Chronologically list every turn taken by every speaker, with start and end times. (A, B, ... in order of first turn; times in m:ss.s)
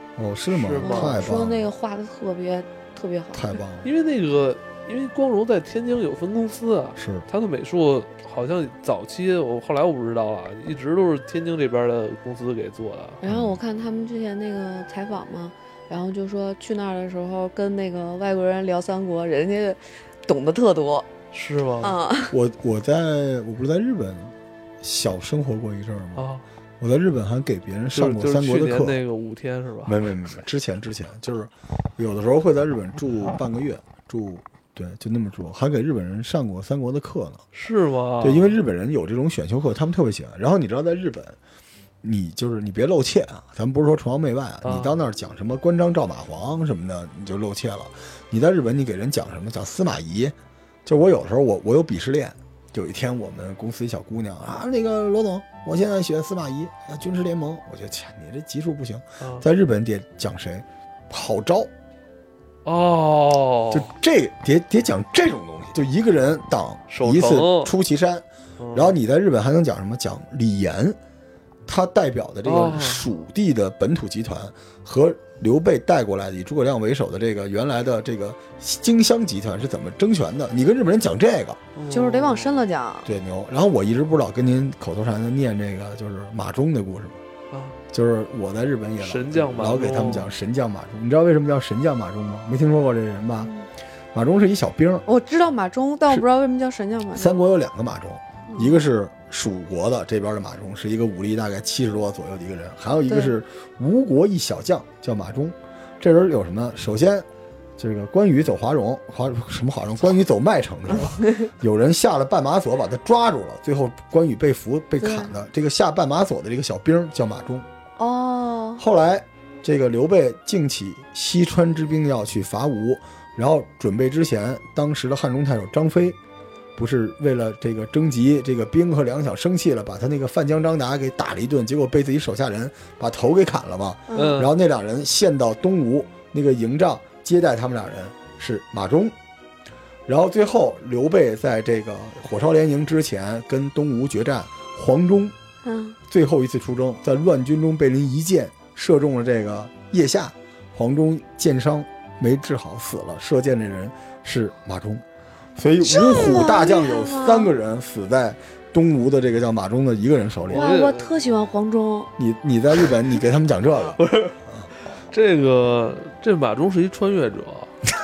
0:00.2-0:01.7 A
0:00.5-0:01.2 B
0:00.8-0:03.6 C
0:03.3-0:03.9 A
0:03.8-0:13.2 B
0:07.0-0:07.2 A
0:13.2-0:21.1 C
0:13.2-0:13.6 A
0:21.3-0:22.0 B
0:21.8-0:22.3 C
0:22.3-0:26.3 A
0:26.2-0:26.4 B
0:26.8-0:29.0 A
0:27.9-0:30.1 B
0:29.8-0:37.4 A
0:37.5-0:38.5 B
0:38.2-0:41.4 A
0:42.0-0:50.3 A
0:44.6-0:44.9 B
0:50.8-1:01.7 A
0:59.2-0:59.4 B
1:02.6-1:03.9 B
1:03.7-1:11.0 A
1:06.9-1:07.7 B
1:08.6-1:09.0 B
1:11.7-1:21.6 A
1:12.4-1:13.0 B
1:21.7-1:22.6 B
1:21.9-1:23.1 C
1:23.0-1:27.2 A
1:27.5-1:27.8 B
1:27.9-1:33.5 A
1:29.0-1:30.3 B
1:34.1-1:35.0 A
1:35.0-1:37.3 C
1:37.1-1:47.2 A
1:38.5-1:38.8 C
1:43.1-1:43.3 C
1:47.8-1:57.6 A
1:51.2-1:51.5 C
1:55.0-1:55.3 C
1:58.0-1:58.8 C
1:58.8-2:06.2 A
2:06.8-2:19.1 A
2:14.1-2:14.3 C
2:14.1-2:14.5 B
2:20.1-2:25.3 A
2:25.6-2:26.0 C
2:26.1-2:35.0 A
2:35.6-2:40.7 A
2:35.8-2:37.5 C
2:40.5-2:41.1 B
2:40.5-2:42.1 C
2:42.2-2:44.7 A
2:44.0-2:44.4 B
2:45.1-2:47.7 B